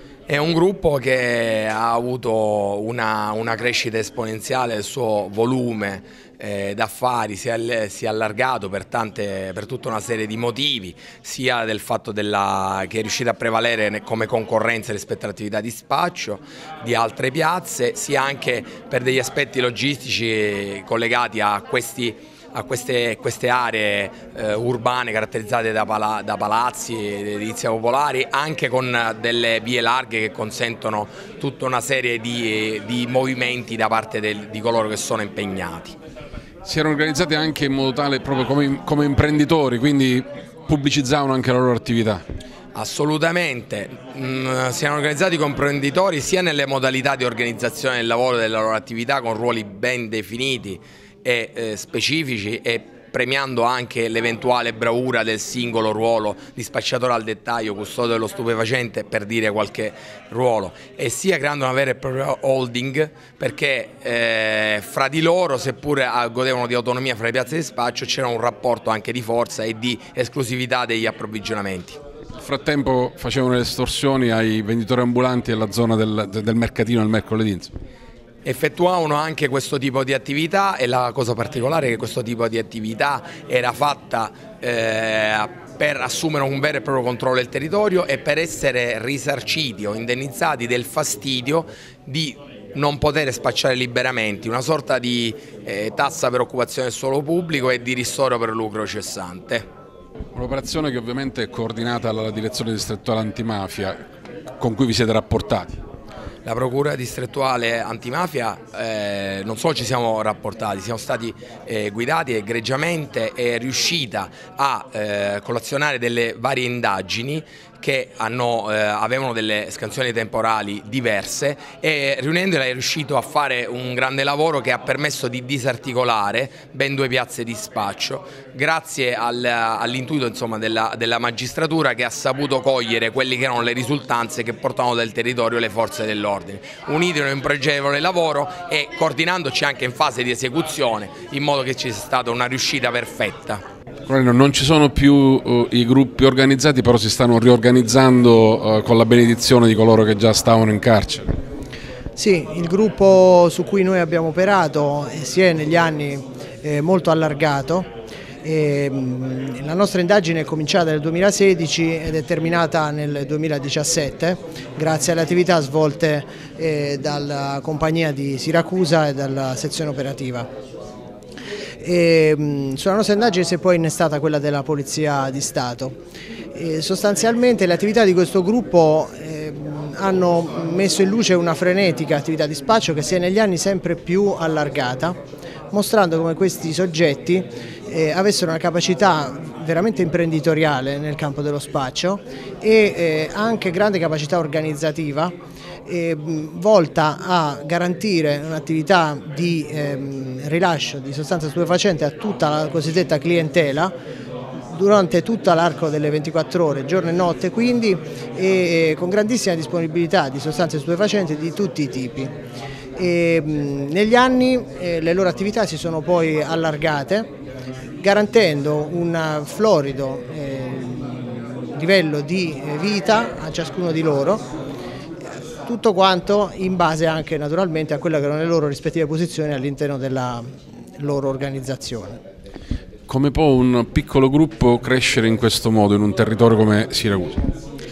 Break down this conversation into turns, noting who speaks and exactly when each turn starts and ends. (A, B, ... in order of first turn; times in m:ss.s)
0:00.3-0:36.0 A
0:36.6-0:42.2 B
0:42.8-1:12.0 A
1:12.4-1:17.7 B
1:18.4-1:39.6 A
1:40.4-1:44.0 B
1:44.6-1:45.8 B
1:46.4-2:23.6 A
2:24.1-2:31.3 B
2:32.2-2:37.9 C
2:38.4-2:50.5 C
2:51.8-2:56.0 C
2:56.6-3:05.2 C
3:05.7-3:15.3 C
3:15.9-3:23.9 C
3:24.7-3:32.3 C
3:33.0-3:37.3 C
3:38.0-3:44.4 C
3:45.7-3:50.5 C
3:51.0-3:52.2 C
3:53.1-3:57.4 B